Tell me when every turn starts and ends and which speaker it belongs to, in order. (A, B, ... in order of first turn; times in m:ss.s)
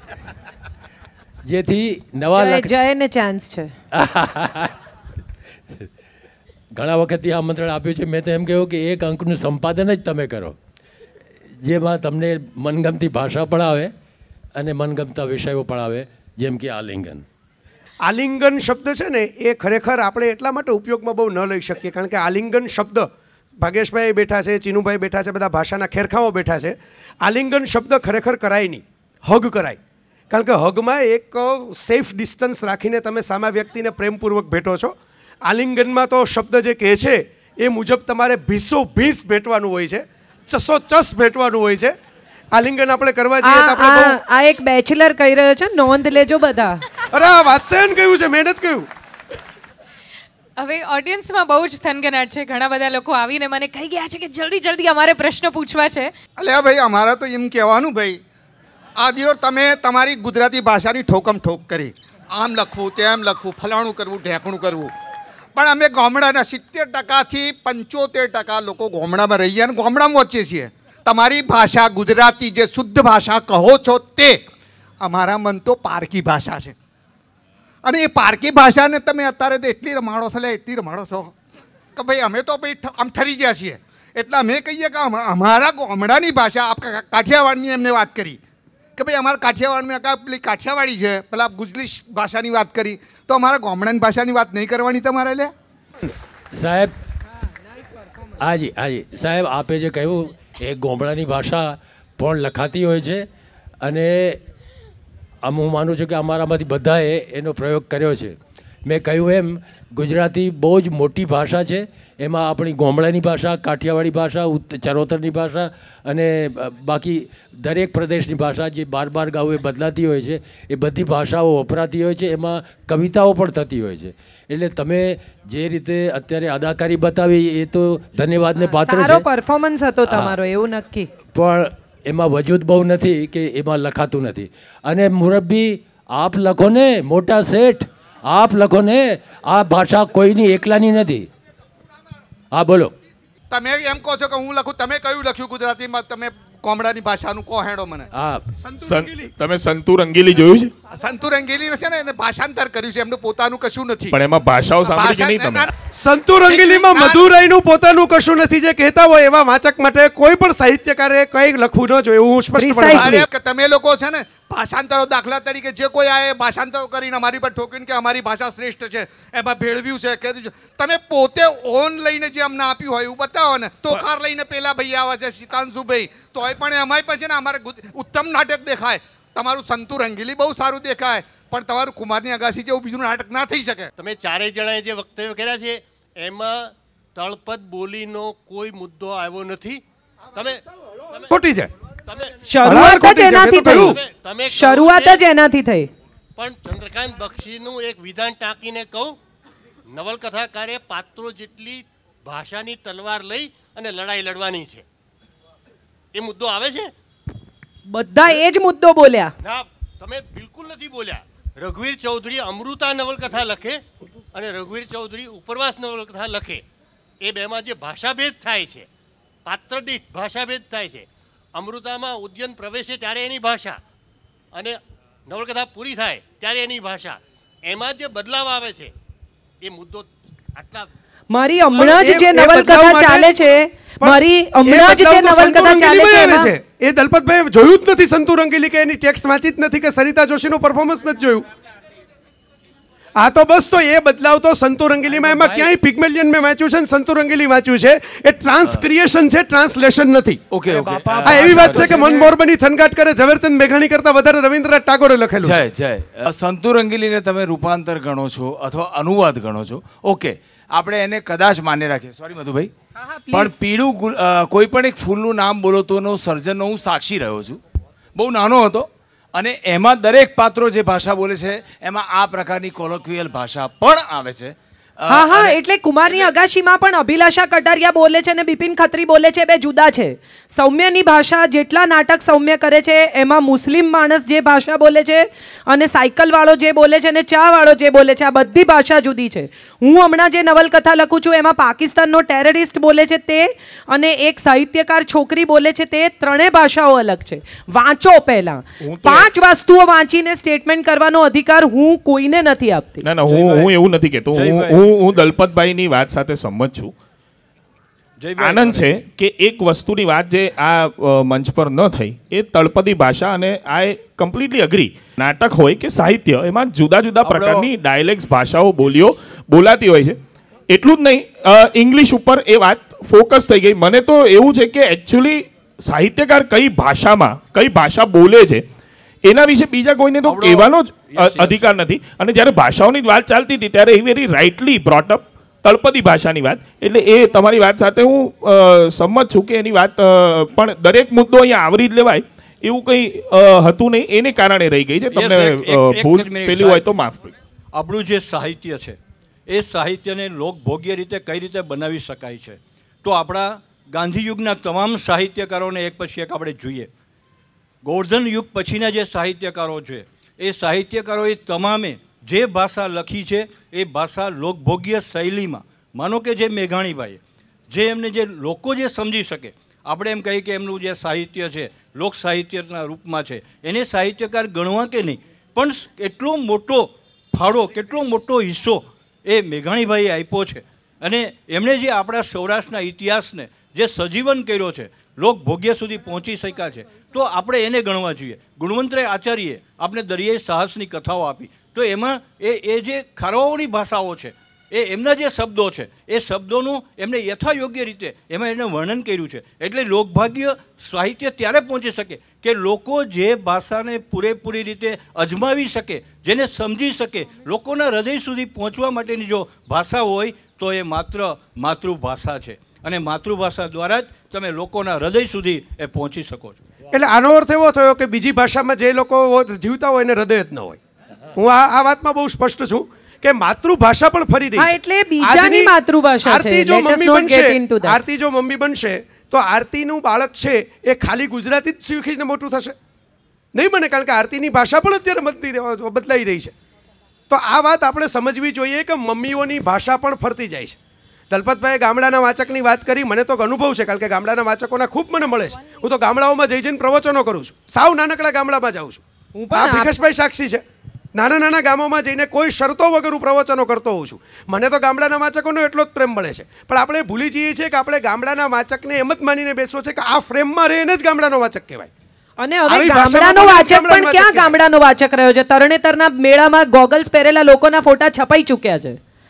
0:01.4-0:02.7 A
0:02.3-0:03.7 B
0:03.9-0:04.8 A
0:06.7-0:10.6 A
0:11.6-0:13.9 A
0:14.6-0:17.2 A
0:18.0-0:29.8 C
0:30.3-0:42.0 C
0:42.5-0:44.2 C
0:43.4-0:46.8 B
0:47.1-0:48.9 C
0:50.6-0:56.1 D
0:56.4-0:58.2 E
0:59.0-1:04.9 E
1:05.5-1:14.4 E
1:15.0-1:16.7 E
1:17.8-1:21.3 E
1:21.9-1:28.4 E
1:29.0-1:35.5 E
1:36.5-1:36.9 A
1:38.3-1:43.3 A
1:43.8-1:44.4 A
1:45.4-2:09.2 A
2:08.8-2:11.1 B
2:10.0-2:10.4 A
2:11.3-2:21.3 A
2:22.5-2:22.9 A
2:23.5-2:28.1 E
2:28.1-2:28.4 A
2:28.6-2:29.3 C
2:28.8-2:30.7 F
2:30.9-2:34.2 E
2:34.1-2:35.7 F
2:34.8-2:35.7 E
2:35.9-2:43.2 C
2:36.5-2:37.2 E
2:42.6-2:43.3 B
2:42.9-3:03.9 E
3:04.0-3:09.8 G
3:10.3-3:11.3 G
3:11.3-3:11.7 C
3:12.0-3:12.5 G
3:12.4-3:15.9 B
3:12.6-3:14.0 C
3:13.7-3:15.2 G
3:16.4-3:19.2 G
3:19.9-3:24.8 G
3:26.1-3:26.9 G
3:27.9-3:29.3 B
3:29.4-3:36.6 G
3:37.2-3:38.9 G
3:39.4-3:43.8 G
3:44.5-3:48.9 G
3:49.6-3:50.9 G
3:51.3-3:56.5 B
3:51.8-3:53.3 C
3:54.0-4:01.5 C
4:03.2-4:10.4 C
4:05.1-4:05.7 H
4:10.5-4:12.3 I
4:10.7-4:12.2 H
4:11.2-4:15.6 C
4:15.4-4:22.7 I
4:23.0-4:23.6 B
4:23.3-4:27.6 I
4:28.1-4:35.6 I
4:35.1-5:03.0 B
4:58.8-4:59.3 F
5:03.0-5:06.9 F
5:03.2-5:03.7 H
5:04.3-5:04.8 H
5:08.2-5:09.0 H
5:08.4-5:20.2 F
5:17.2-5:17.7 H
5:20.7-5:28.6 F
5:29.2-5:47.3 F
5:30.2-5:31.7 H
5:45.1-5:46.9 H
5:47.7-5:49.0 H
5:49.5-5:56.9 H
5:57.8-6:56.6 H
6:56.9-7:00.8 C
7:01.3-7:12.8 C
7:04.6-7:08.0 B
7:13.5-7:16.5 C
7:17.3-7:20.8 C
7:21.3-7:30.6 C
7:29.3-7:29.9 B
7:31.1-7:41.9 C
7:42.4-7:49.0 B
7:42.7-7:44.5 C